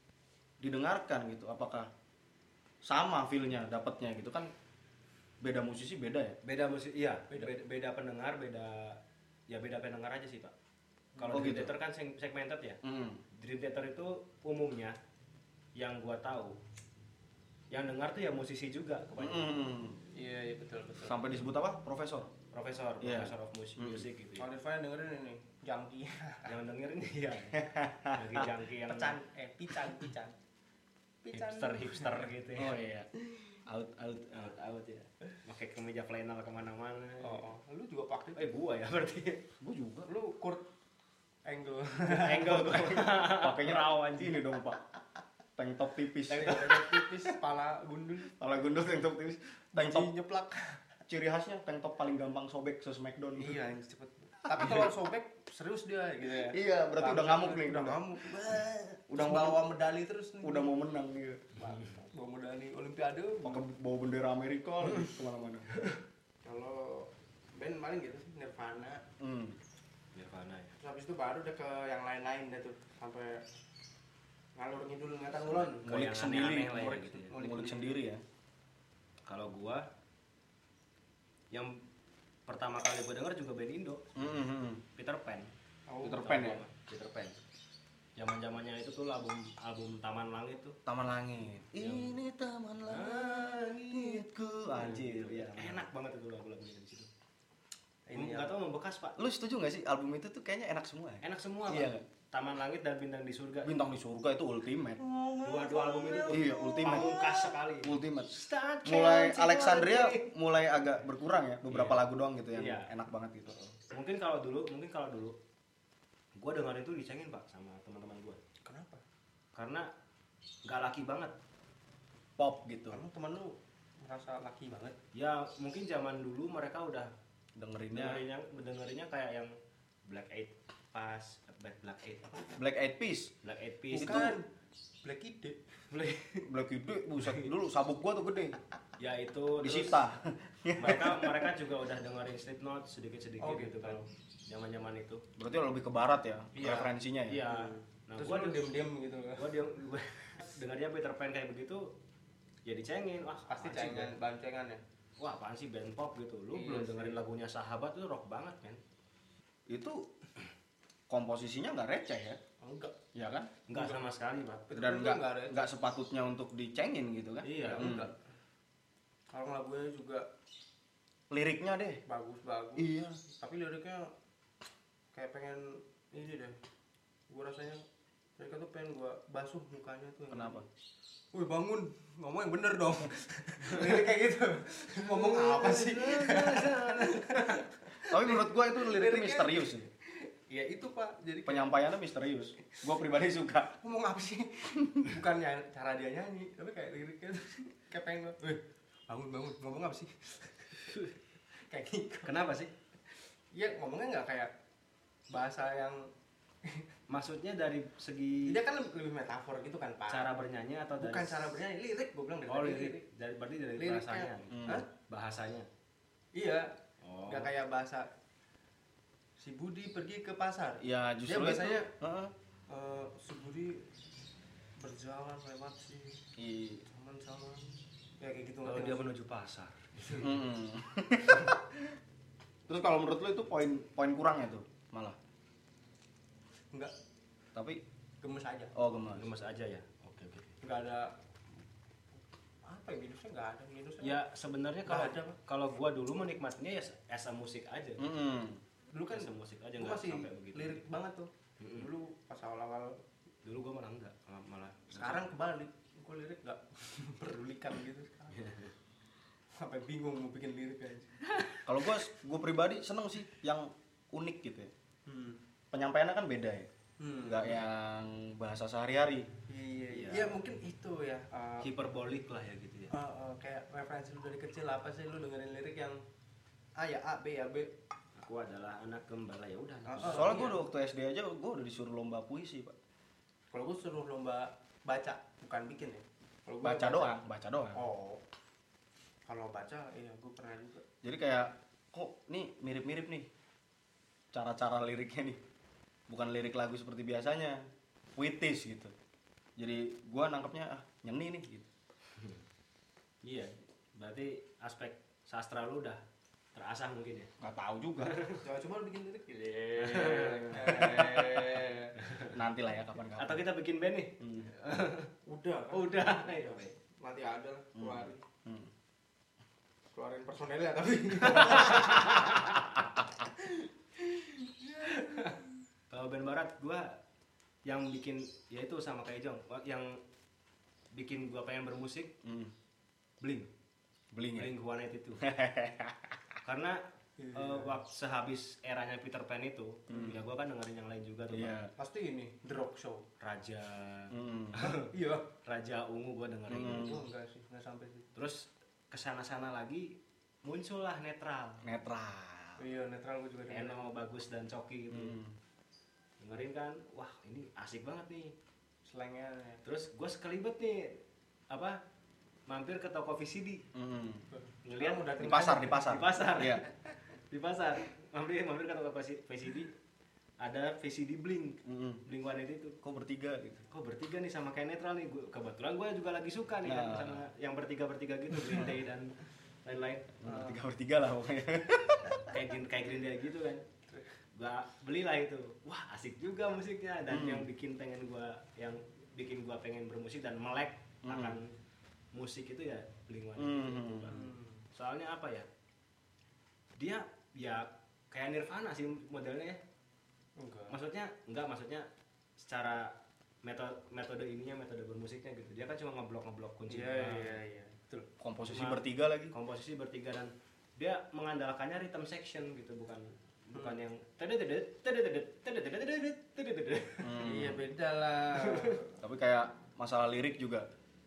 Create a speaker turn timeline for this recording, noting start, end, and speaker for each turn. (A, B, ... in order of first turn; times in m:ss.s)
0:00.6-0:01.9 A
0:02.8-0:04.5 A
0:05.4-0:06.4 A
0:06.4-0:10.5 B
0:11.2-0:11.5 C
0:11.2-0:12.8 B
0:11.3-0:11.8 A
0:12.8-0:13.2 A
0:13.3-0:15.0 B
0:15.8-0:16.6 B
0:17.7-0:19.6 B
0:19.2-0:20.0 A
0:20.2-0:21.2 C
0:21.0-0:22.3 A
0:22.5-0:24.5 B
0:23.0-0:24.1 A
0:24.4-0:26.5 C
0:26.5-0:27.6 B
0:27.5-0:28.5 A
0:28.1-0:29.2 B
0:28.9-0:30.4 C
0:31.2-0:32.3 C
0:31.3-0:32.8 B
0:32.6-0:33.1 A
0:33.6-0:34.5 A
0:34.3-0:37.5 B
0:37.2-0:38.5 C
0:38.4-0:39.5 B
0:39.6-0:40.1 A
0:40.1-0:40.7 C
0:41.4-0:42.9 C
0:42.1-0:44.4 B
0:42.4-0:44.8 A
0:45.6-0:47.0 A
0:46.3-0:46.8 B
0:46.3-0:48.3 C
0:48.4-0:50.1 A
0:49.7-0:50.8 C
0:51.1-0:53.6 A
0:53.4-1:00.8 C
0:54.4-0:54.9 A
0:56.3-0:58.6 A
0:59.1-0:59.7 A
1:00.4-1:01.5 A
1:01.6-1:02.0 B
1:01.6-1:03.6 C
1:03.4-1:05.7 A
1:04.9-1:05.2 C
1:06.4-1:09.0 C
1:09.2-1:09.6 A
1:10.2-1:10.8 B
1:10.8-1:13.4 C
1:14.6-1:15.9 C
1:15.4-1:17.3 B
1:15.8-1:18.2 A
1:16.6-1:18.0 C
1:19.3-1:19.8 B
1:21.5-1:21.8 B
1:22.5-1:24.3 B
1:24.2-1:24.8 A
1:25.0-1:25.5 B
1:25.9-1:26.4 C
1:26.0-1:26.6 A
1:26.1-1:27.4 B
1:28.2-1:30.8 B
1:30.9-1:35.9 A
1:31.8-1:32.2 B
1:32.9-1:37.1 B
1:38.1-1:38.6 C
1:38.1-1:39.2 B
1:39.2-1:42.0 A
1:41.2-1:43.8 B
1:43.6-1:45.0 A
1:45.0-1:47.5 C
1:45.4-1:50.3 B
1:46.3-1:47.2 A
1:47.8-1:53.6 A
1:51.7-1:52.9 B
1:53.6-1:55.4 B
1:56.4-1:58.4 B
1:58.6-1:59.0 C
1:59.6-1:59.9 B
2:00.6-2:01.3 B
2:02.4-2:03.0 A
2:02.9-2:05.0 C
2:05.1-2:07.1 B
2:07.6-2:08.2 A
2:07.9-2:09.5 B
2:10.1-2:12.5 B
2:12.5-2:13.3 A
2:13.4-2:14.3 B
2:13.9-2:14.4 A
2:13.9-2:14.5 C
2:15.0-2:15.8 C
2:15.9-2:16.5 B
2:16.4-2:18.6 A
2:17.2-2:17.5 B
2:19.0-2:20.1 B
2:19.6-2:21.5 A
2:20.8-2:25.2 B
2:23.4-2:24.0 C
2:25.4-2:27.4 A
2:26.6-2:26.9 C
2:27.3-2:28.7 B
2:27.5-2:29.5 C
2:29.4-2:31.9 B
2:32.7-2:34.2 B
2:33.5-2:34.8 C
2:35.2-2:38.8 B
2:36.5-2:37.2 C
2:39.7-2:40.1 A
2:41.1-2:42.4 A
2:42.6-2:43.0 C
2:43.1-2:43.5 A
2:43.7-2:44.7 B
2:43.7-2:44.0 C
2:44.7-2:45.7 C
2:44.7-2:48.1 A
2:47.4-2:48.0 B
2:47.6-2:48.1 C
2:49.3-2:50.3 C
2:51.3-2:52.0 A
2:52.0-2:54.1 C
2:52.8-2:53.2 A
2:55.1-2:56.6 C
2:57.3-2:57.8 C
2:58.4-3:00.6 C
3:00.3-3:00.7 A
3:01.3-3:11.8 C
3:03.7-3:04.0 B
3:05.0-3:07.6 B
3:08.1-3:09.9 A
3:11.5-3:13.8 A
3:13.8-3:21.0 C
3:14.8-3:15.1 A
3:21.7-3:22.4 C
3:22.2-3:22.7 B
3:23.5-3:24.5 C
3:25.3-3:26.1 C
3:27.1-3:28.6 B
3:28.4-3:30.3 C
3:30.1-3:31.6 B
3:31.0-3:33.0 C
3:32.5-3:35.7 B
3:33.8-3:34.9 C
3:34.5-3:34.8 A
3:36.4-3:36.7 C
3:37.0-3:37.5 B
3:37.3-3:38.1 C
3:39.4-3:41.9 C
3:40.8-3:42.3 A
3:42.7-3:43.9 C
3:44.8-3:46.2 C
3:46.4-3:46.8 A
3:46.8-3:49.1 C
3:48.6-3:50.4 B
3:50.2-3:52.0 A
3:52.7-3:55.2 A
3:57.5-3:57.8 A
3:58.2-3:58.7 C
3:58.7-3:59.3 A
3:59.2-4:00.6 B
4:00.6-4:01.1 C
4:02.6-4:04.2 C
4:04.0-4:08.0 B
4:04.9-4:05.4 C
4:08.0-4:08.6 A
4:08.9-4:13.0 C
4:09.1-4:10.9 B
4:11.6-4:11.9 B
4:13.4-4:15.3 B
4:14.9-4:18.4 C
4:18.3-4:18.7 B
4:19.6-4:21.6 C
4:21.6-4:24.7 A
4:25.1-4:25.4 C
4:25.7-4:26.7 A
4:27.0-4:27.6 C
4:27.2-4:29.3 A
4:29.5-4:31.7 C
4:29.9-4:30.4 B
4:31.6-4:32.9 B
4:32.9-4:36.0 C
4:36.8-4:37.7 C
4:38.2-4:40.4 B
4:39.9-4:40.6 C
4:40.0-4:42.8 A
4:43.5-4:47.1 C
4:46.6-4:47.8 A
4:47.7-4:48.2 C
4:49.3-4:50.8 C
4:51.0-4:53.3 A
4:54.3-4:55.4 A
4:56.1-4:57.6 A
4:58.2-4:58.9 A
4:59.6-5:01.7 A
5:03.2-5:06.0 B
5:06.6-5:07.3 B
5:07.4-5:08.2 A
5:08.0-5:08.4 B
5:08.4-5:12.0 C
5:09.8-5:12.4 B
5:12.3-5:13.4 A
5:13.2-5:15.1 B
5:14.2-5:14.5 A
5:15.3-5:18.2 C
5:15.7-5:16.7 B
5:17.8-5:18.7 A
5:19.9-5:22.3 C
5:21.4-5:22.5 B
5:24.7-5:25.3 C
5:24.9-5:27.0 B
5:27.6-5:30.0 B
5:30.9-5:32.2 B
5:32.2-5:32.5 A
5:33.2-5:33.5 B
5:34.1-5:34.5 A
5:34.4-5:35.2 B
5:35.2-5:36.4 A
5:36.4-5:36.8 B
5:37.2-5:37.8 C
5:37.3-5:41.6 B
5:39.9-5:40.2 A
5:41.3-5:41.7 A
5:41.8-5:43.1 C
5:43.2-5:44.9 B
5:44.1-5:44.7 A
5:44.8-5:45.3 C
5:45.4-5:47.0 B
5:46.5-5:47.0 A
5:46.5-5:48.1 C
5:48.2-5:51.7 B
5:51.6-5:52.6 A
5:52.6-5:53.9 C
5:53.5-5:55.2 B
5:54.9-5:55.3 A
5:56.2-5:58.3 B
5:58.9-5:59.6 C
5:59.6-6:01.8 B
6:02.5-6:03.6 B
6:03.7-6:04.3 A
6:04.3-6:05.9 C
6:04.6-6:06.7 B
6:05.2-6:06.6 A
6:07.3-6:09.7 B
6:10.4-6:12.8 B
6:11.7-6:12.0 A
6:12.8-6:13.6 A
6:13.7-6:20.2 B
6:16.6-6:17.2 A
6:20.2-6:22.4 A
6:20.2-6:20.6 C
6:22.3-6:23.6 B
6:24.3-6:31.5 B
6:27.1-6:27.5 A
6:31.0-6:31.4 A
6:32.1-6:35.5 B
6:33.4-6:34.1 A
6:34.1-6:34.7 C
6:36.8-6:39.6 B
6:40.4-6:40.8 C
6:40.7-6:41.9 B
6:42.4-6:47.4 B
6:46.7-6:48.1 C
6:48.2-6:49.3 A
6:48.5-6:57.2 B
6:57.0-6:57.6 A
6:57.2-6:58.9 C
6:58.4-6:58.8 B
6:59.0-7:00.7 A